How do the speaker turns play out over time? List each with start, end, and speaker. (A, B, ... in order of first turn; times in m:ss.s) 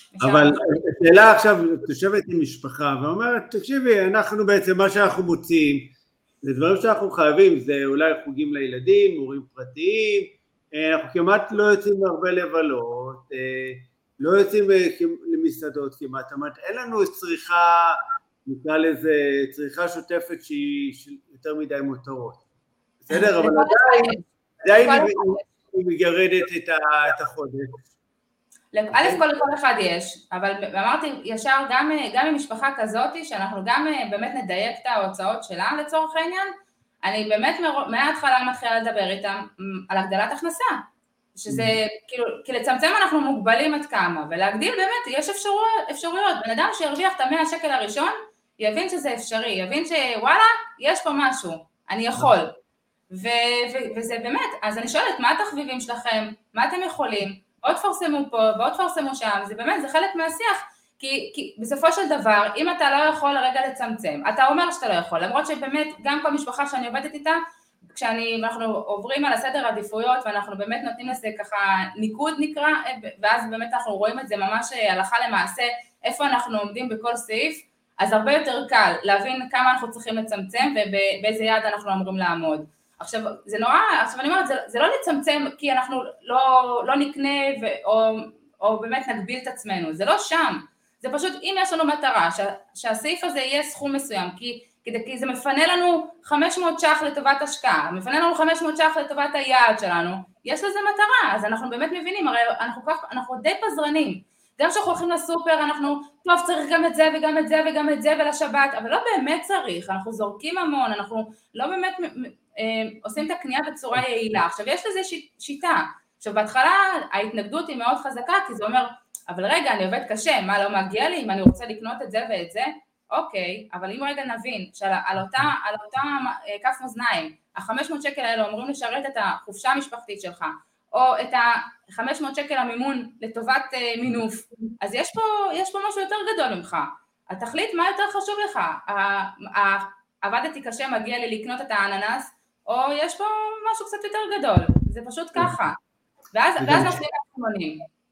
0:00.2-0:00.6 A
0:00.2-0:22.4 B
0:23.0-0:27.8 B
0:23.1-0:24.2 A
0:24.8-0:25.4 A
0:28.7-0:36.5 A
0:28.9-0:29.2 B
0:37.0-0:40.8 A
0:41.4-0:52.6 A
0:41.5-0:41.8 B
0:53.1-2:25.8 A
2:26.3-2:27.9 A
2:26.6-2:27.0 B